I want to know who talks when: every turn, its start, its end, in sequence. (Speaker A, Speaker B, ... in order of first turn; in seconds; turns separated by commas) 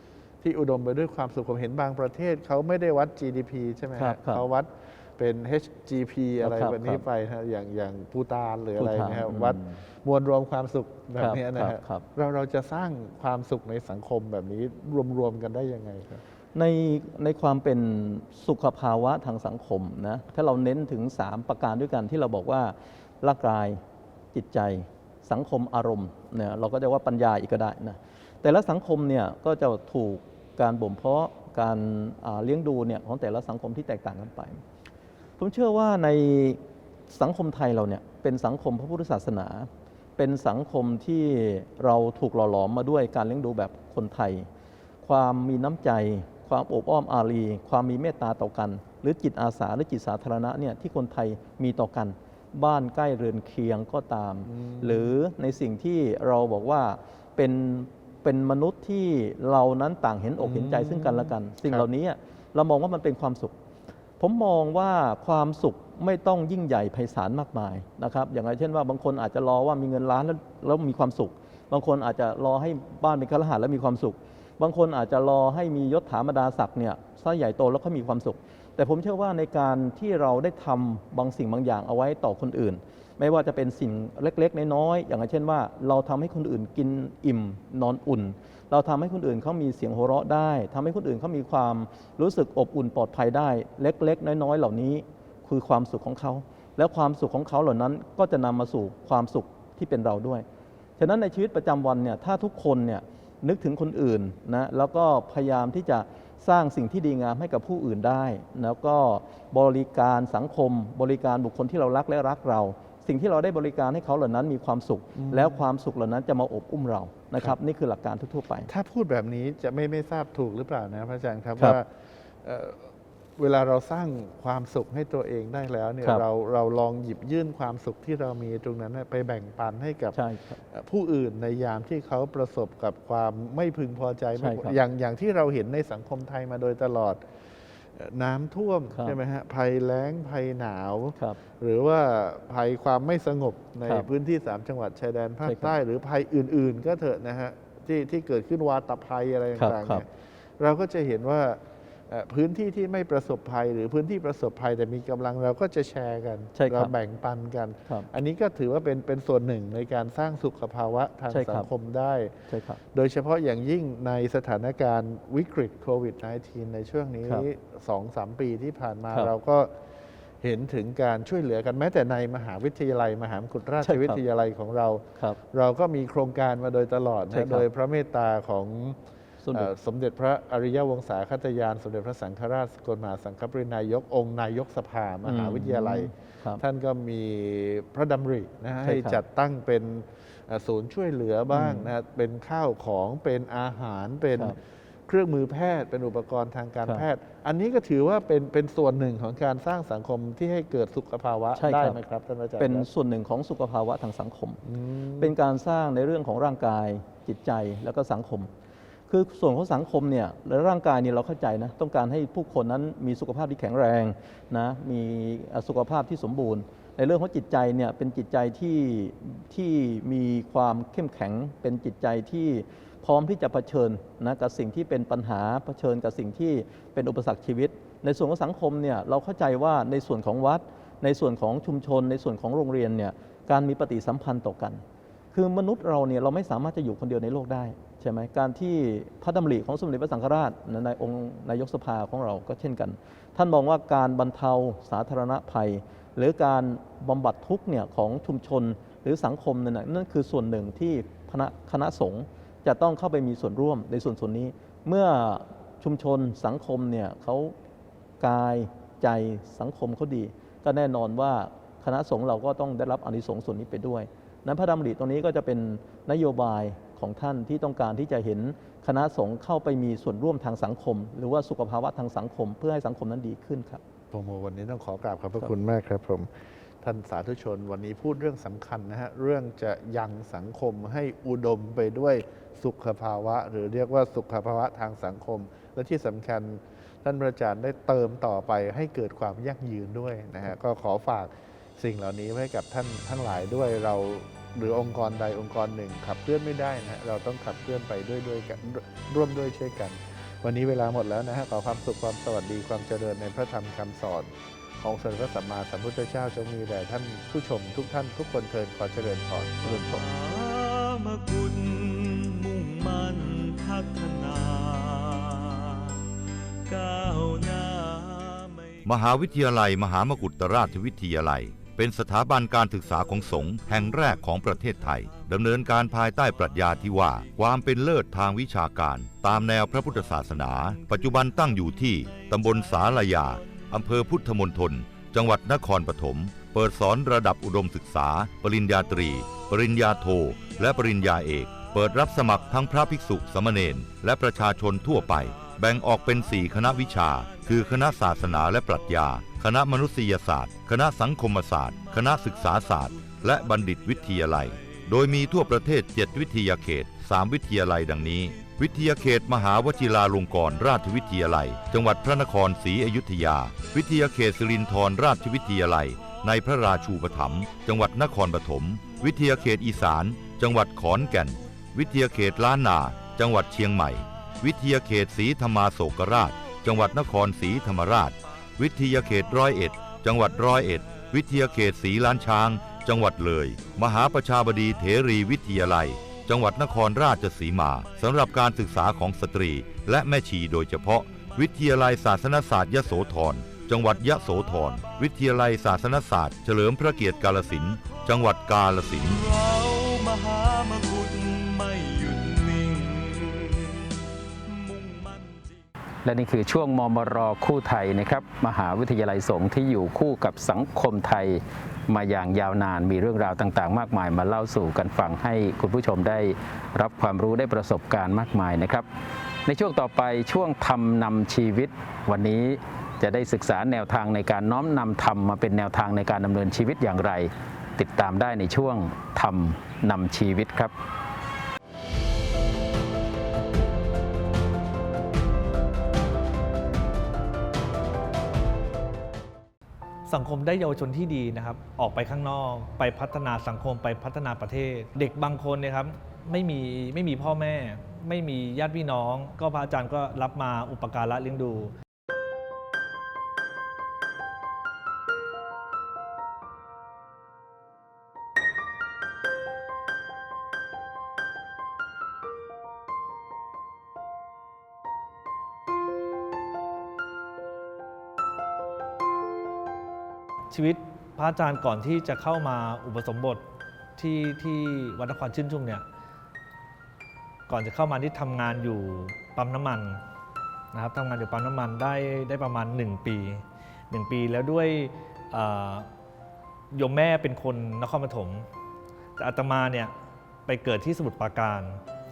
Speaker A: 0.4-16.2, Speaker B: 3.9-4.4, Speaker B: 6.4-7.0, Speaker B: 8.8-9.8, Speaker B: 11.2-12.0, Speaker B: 16.5-23.8, Speaker B: 24.3-34.6, Speaker B: 35.4-44.5, Speaker B: 45.0-63.5, Speaker A: 54.5-55.1, Speaker A: 60.4-61.9, Speaker B: 64.2-100.4, Speaker B: 101.0-118.7, Speaker A: 115.2-115.6, Speaker A: 118.7-121.9, Speaker A: 122.4-130.2, Speaker B: 130.1-130.6, Speaker A: 130.7-150.1, Speaker B: 134.3-134.8, Speaker B: 138.9-139.2, Speaker B: 145.4-145.7, Speaker B: 149.6-150.0, Speaker A: 150.6-169.7, Speaker B: 156.5-156.9, Speaker B: 161.3-161.7, Speaker B: 162.5-162.8, Speaker A: 170.4-179.0, Speaker B: 173.8-174.2, Speaker B: 177.3-177.6, Speaker B: 179.4-179.7, Speaker A: 179.5-202.9, Speaker B: 185.2-186.6, Speaker B: 188.8-189.2, Speaker B: 191.5-191.9, Speaker B: 201.5-202.0, Speaker B: 202.6-204.6, Speaker A: 204.6-205.3, Speaker B: 205.2-208.5, Speaker B: 209.1-257.5, Speaker B: 258.2-273.8, Speaker A: 274.1-309.6, Speaker B: 309.6-310.1, Speaker C: 309.6-316.0, Speaker C: 316.7-318.9, Speaker D: 318.8-399.2, Speaker C: 332.2-332.7, Speaker C: 333.4-333.7, Speaker C: 345.0-348.1, Speaker C: 353.1-353.6, Speaker C: 399.0-403.9, Speaker C: 404.4-405.6, Speaker E: 406.0-418.9, Speaker E: 419.4-430.7, Speaker F: 440.1-451.7, Speaker F: 470.5-473.4, Speaker F: 474.0-475.8, Speaker F: 477.5-480.0, Speaker F: 480.7-485.9, Speaker F: 486.7-488.5, Speaker F: 489.2-489.9, Speaker F: 490.5-491.8